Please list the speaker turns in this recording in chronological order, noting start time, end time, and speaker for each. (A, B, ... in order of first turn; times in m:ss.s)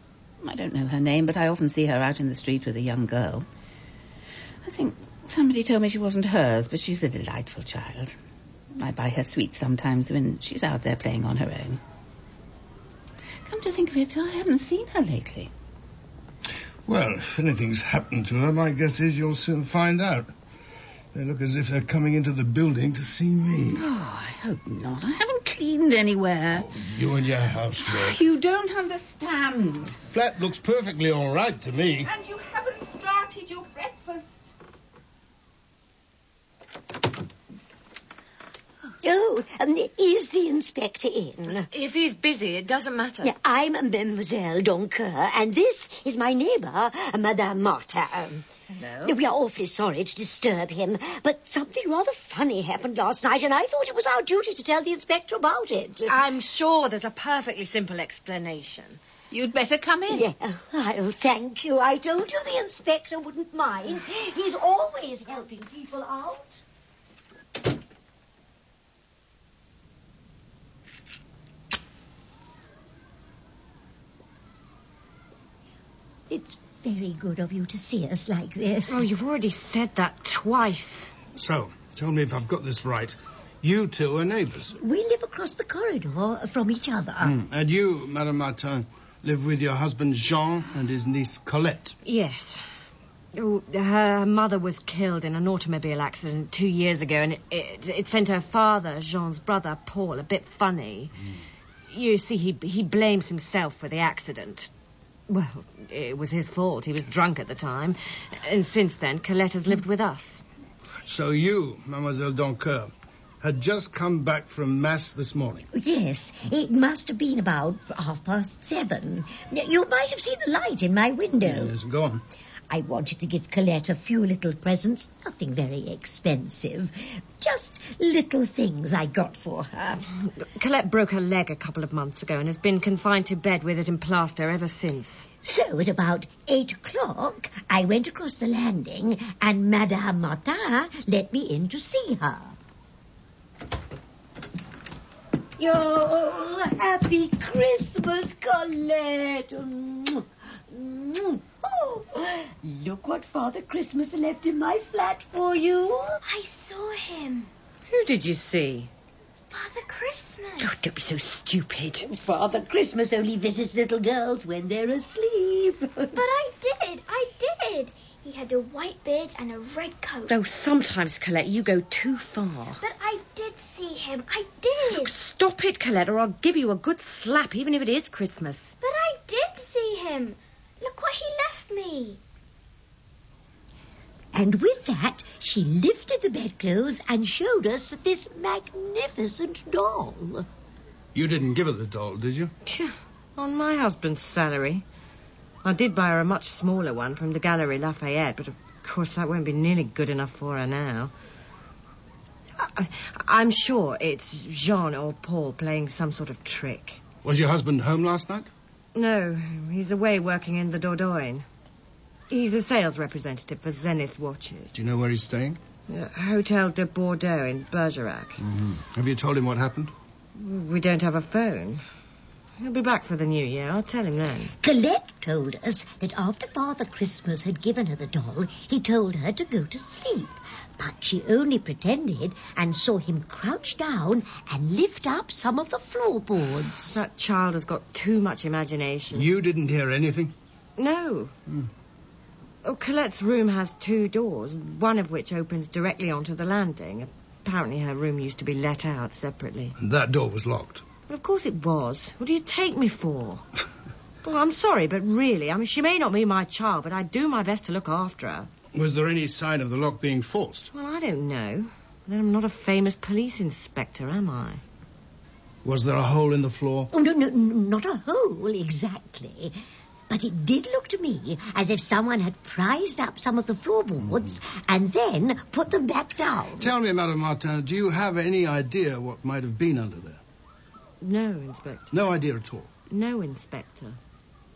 0:00.4-0:03.5 A
0:04.6-0:08.2 A
0:08.8-0:11.8 A
0:13.4-0:15.5 A
0:16.9-0:20.3 B
0:21.1-0:23.8 B
0:23.7-0:26.7 A
0:26.5-0:28.2 B
0:27.8-0:30.0 A
0:30.0-0:32.1 B
0:32.0-0:34.5 A
0:39.0-0:41.7 C
0:41.7-0:43.3 D
0:43.2-0:48.4 C
0:48.8-0:49.1 A
0:49.0-0:56.2 C
0:56.1-0:59.0 D
0:59.3-1:00.2 A
1:00.1-1:06.6 C
1:16.3-1:19.1 C
1:18.9-1:21.1 D
1:21.3-1:24.8 B
1:24.8-1:27.3 C
1:27.2-1:31.9 B
1:32.0-1:32.6 D
1:33.3-1:41.1 D
1:41.9-1:44.7 D
1:45.3-1:50.4 D
1:51.1-1:55.6 B
1:55.7-2:01.7 C
2:01.4-2:02.2 B
2:02.7-2:10.0 C
2:10.3-2:15.3 D
2:15.4-2:22.5 C
2:25.6-2:36.2 C
2:36.2-2:37.5 E
2:37.9-2:38.9 D
2:39.5-2:40.8 E
2:40.6-2:42.1 D
2:42.0-2:46.2 C
2:46.1-2:50.3 E
2:50.3-2:52.8 D
2:52.8-2:55.1 E
2:54.9-2:58.8 D
2:58.8-3:02.2 E
3:04.3-3:10.4 C
3:11.1-3:12.5 B
3:12.6-3:14.8 D
3:15.6-3:21.1 D
3:22.6-3:27.0 D
3:27.2-3:28.5 B
3:28.9-3:31.4 D
3:32.3-3:34.7 D
3:34.7-3:35.6 B
3:35.9-3:38.4 D
3:38.4-3:39.9 B
3:40.3-3:41.8 D
3:42.6-3:44.5 D
3:44.6-3:57.0 C
3:56.9-3:59.3 D
3:59.1-4:00.3 B
4:00.8-4:01.3 D
4:02.6-4:09.8 D
4:09.8-4:10.8 B
4:11.1-4:13.5 D
4:14.2-4:18.5 D
4:18.7-4:20.7 B
4:20.7-4:24.6 D
4:25.6-4:26.9 B
4:26.9-4:29.6 C
4:30.1-4:36.6 C
4:34.1-4:34.3 B
4:36.6-4:40.2 B
4:41.0-4:42.0 D
4:41.9-4:42.7 B
4:42.9-4:44.0 D